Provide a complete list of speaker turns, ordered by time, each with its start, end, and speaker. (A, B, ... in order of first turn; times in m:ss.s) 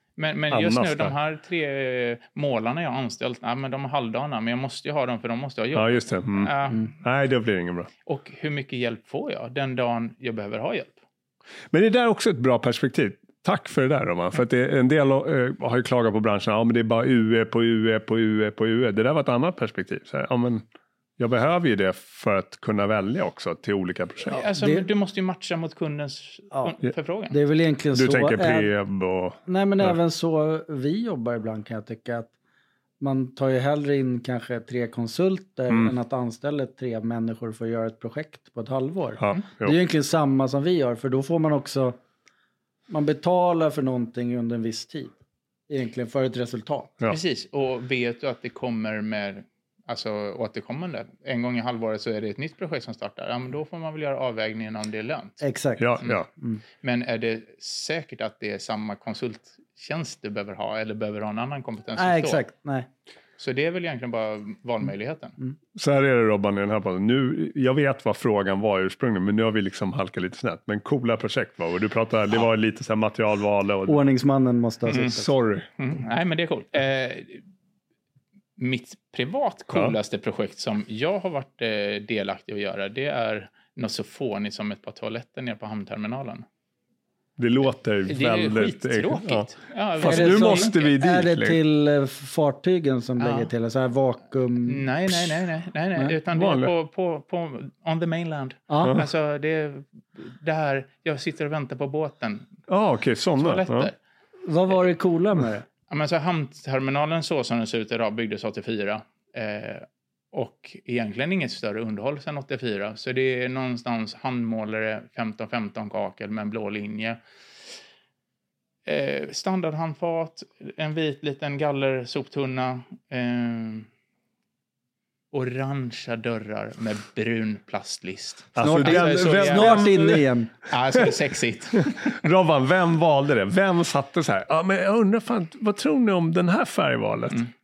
0:00.2-0:06.9 A
0:00.5-0:01.1 B
0:05.8-0:07.9 B
0:08.1-0:11.0 A
0:11.7-0:20.6 B
0:21.2-0:24.4 B
0:24.2-0:27.4 A
0:24.6-0:24.8 C
0:27.3-0:28.7 C
0:27.9-0:30.0 B
0:29.5-0:32.3 C
0:33.0-0:42.0 C
0:39.2-0:39.8 B
0:42.9-0:45.1 C
0:45.7-0:46.9 C
0:47.1-0:55.4 A
0:55.4-0:56.6 C
0:55.8-0:56.3 B
0:56.8-1:02.4 A
1:02.0-1:02.9 C
1:03.4-1:05.4 A
1:05.8-1:14.0 B
1:13.9-1:15.3 C
1:14.9-1:15.2 A
1:14.9-1:15.7 B
1:15.8-1:17.4 A
1:18.6-1:26.4 A
1:27.4-1:31.6 B
1:28.1-1:30.8 A
1:30.0-1:34.9 C
1:33.2-1:33.5 A
1:34.6-1:42.5 A
1:36.3-1:36.7 B
1:38.7-1:39.0 C
1:42.7-1:43.9 B
1:43.4-1:44.0 A
1:44.4-1:45.6 C
1:45.9-1:57.2 A
1:58.8-2:03.9 A
2:05.3-2:12.2 A
2:08.6-2:10.3 B
2:08.6-2:10.5 C
2:12.0-2:17.4 B